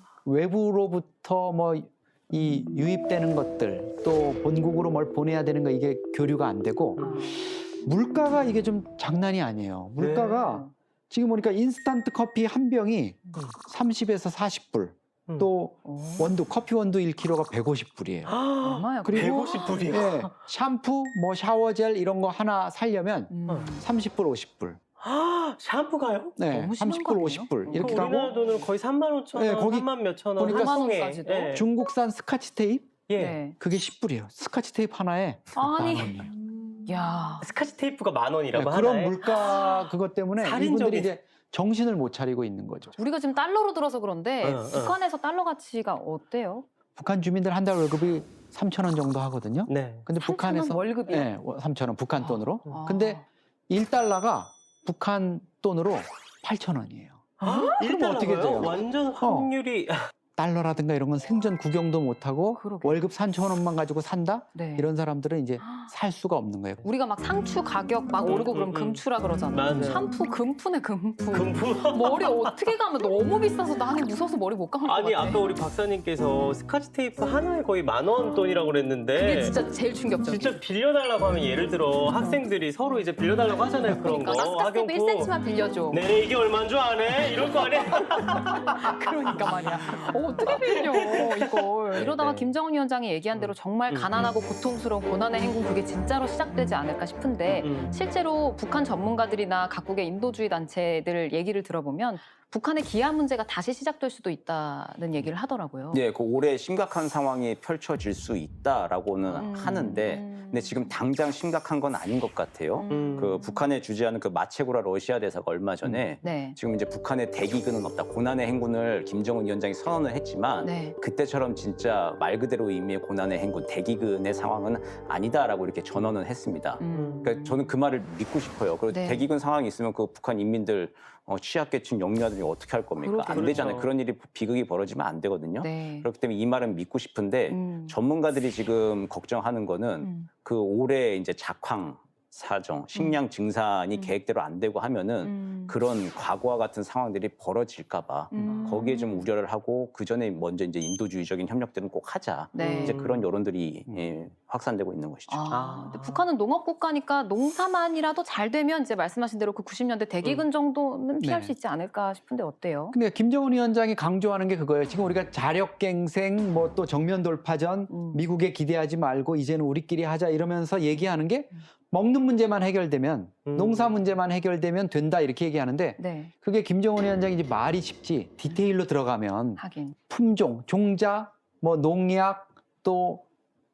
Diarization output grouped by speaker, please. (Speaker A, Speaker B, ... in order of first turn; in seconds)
Speaker A: 0.2-18.4, 19.0-24.8, 26.4-28.3, 29.3-30.8, 31.5-32.9, 33.5-36.3, 38.5-43.0, 47.0-59.5, 60.4-66.9, 161.2-161.5, 162.9-183.2
Speaker B: 7.0-7.3, 10.4-10.7, 15.8-16.3, 18.6-19.7, 23.3-23.8, 26.5-28.3, 30.4-31.6, 33.2-33.6, 35.6-36.3, 36.9-37.5, 39.3-39.9, 43.0-46.7, 50.2-51.3, 52.2-53.2, 57.5-57.7, 62.6-63.0, 64.5-64.9, 65.6-65.9, 66.8-75.4, 79.2-80.6, 82.1-82.4, 83.9-86.1, 88.0-106.0, 109.3-110.9, 112.8-113.7, 116.2-116.6, 120.6-121.0, 126.8-127.7, 128.9-129.3, 133.0-133.8, 135.6-136.1, 137.5-138.0, 140.0-140.3, 142.9-143.2, 145.2-145.8, 148.3-149.3, 152.5-153.0, 155.3-163.0, 167.9-168.2, 176.0-176.3, 179.6-180.0
Speaker C: 10.0-10.5, 18.3-20.3, 25.0-26.4, 27.7-31.6, 33.1-33.4, 37.4-39.2, 40.4-41.1, 44.4-45.0, 49.7-50.0, 57.4-60.1, 68.2-70.1, 71.3-72.3, 74.8-79.6, 80.2-85.3, 85.9-88.8, 89.9-91.4, 91.9-92.5, 93.3-94.3, 97.5-98.0, 112.9-113.4, 126.9-127.3, 133.3-133.9, 148.4-148.8, 152.6-153.3, 155.5-156.3, 173.5-174.1
Speaker D: 105.9-155.4